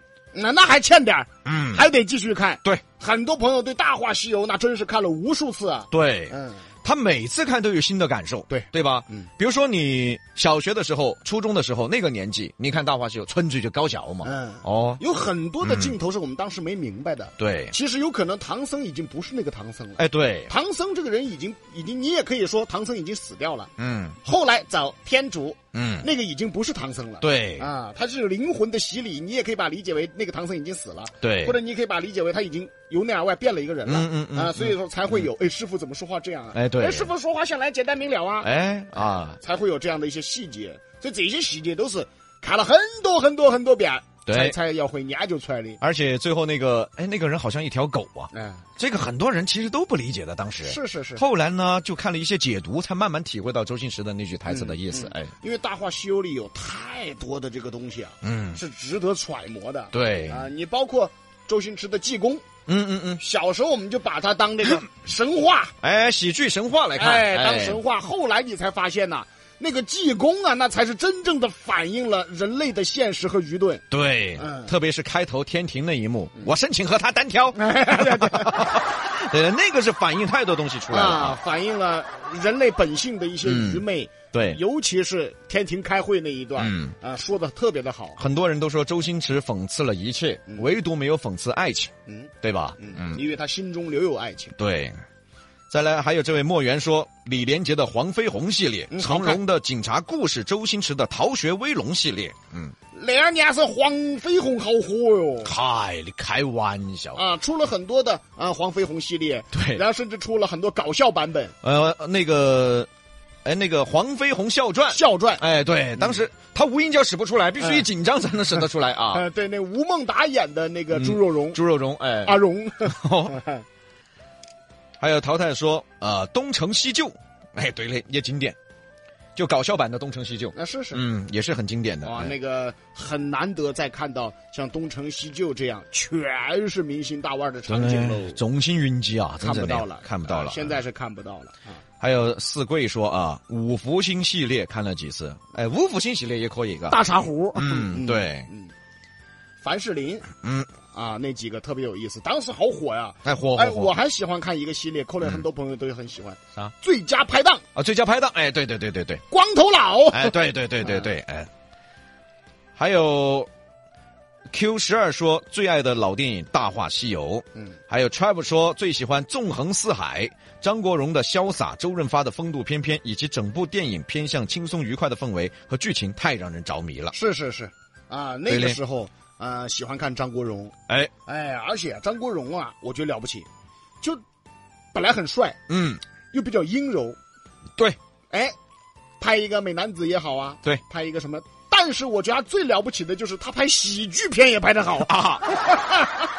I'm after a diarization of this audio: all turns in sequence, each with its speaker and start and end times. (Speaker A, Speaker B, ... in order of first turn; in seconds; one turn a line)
Speaker A: 0.3-6.6
Speaker B: 1.4-1.8
Speaker B: 5.9-15.0
Speaker A: 8.5-9.2
Speaker A: 14.2-23.7
Speaker B: 15.6-15.9
Speaker B: 17.4-17.7
Speaker B: 20.0-20.5
Speaker B: 23.8-24.2
Speaker A: 24.2-38.5
Speaker B: 25.7-26.1
Speaker B: 27.2-27.6
Speaker B: 31.2-31.6
Speaker B: 33.8-35.2
Speaker B: 36.5-37.1
Speaker B: 38.4-39.4
Speaker A: 39.4-45.8
Speaker B: 44.2-44.5
Speaker B: 45.8-55.3
Speaker A: 48.3-48.6
Speaker A: 50.6-51.2
Speaker A: 54.5-62.4
Speaker B: 58.2-58.6
Speaker B: 59.9-60.4
Speaker B: 62.7-63.2
Speaker A: 63.2-65.7
Speaker B: 65.8-67.8
Speaker A: 67.0-73.8
Speaker B: 73.9-81.4
Speaker A: 74.4-74.7
Speaker A: 77.5-78.8
Speaker A: 80.9-88.2
Speaker B: 83.4-84.6
Speaker B: 86.6-86.9
Speaker B: 88.2-93.2
Speaker A: 92.1-94.5
Speaker B: 94.5-95.0
Speaker B: 95.7-102.7
Speaker A: 98.9-99.4
Speaker A: 102.9-105.5
Speaker B: 105.4-107.2
Speaker A: 107.1-111.5
Speaker B: 109.5-109.8
Speaker B: 111.6-112.9
Speaker B: 113.4-119.2
Speaker A: 114.9-115.4
Speaker A: 117.6-117.8
Speaker A: 119.1-121.6
Speaker B: 120.9-123.4
Speaker A: 122.2-123.6
Speaker B: 125.0-128.6
Speaker B: 129.3-132.3
Speaker A: 130.5-131.0
Speaker A: 132.0-138.4
Speaker B: 137.7-140.7
Speaker A: 139.4-141.8
Speaker B: 142.0-147.0
Speaker A: 146.9-148.7
Speaker B: 147.5-148.5
Speaker A: 149.6-150.3
Speaker B: 150.4-150.7
Speaker A: 150.9-157.6
Speaker B: 153.2-153.9
Speaker B: 157.7-159.2
Speaker A: 159.3-161.0
Speaker B: 160.1-161.5
Speaker B: 162.8-163.5
Speaker B: 164.5-177.1
Speaker A: 177.1-180.7
Speaker B: 178.5-178.8
Speaker A: 181.3-183.5
Speaker A: 184.9-185.6
Speaker B: 185.7-186.0
Speaker A: 186.3-187.2
Speaker A: 189.2-196.2
Speaker B: 195.0-195.6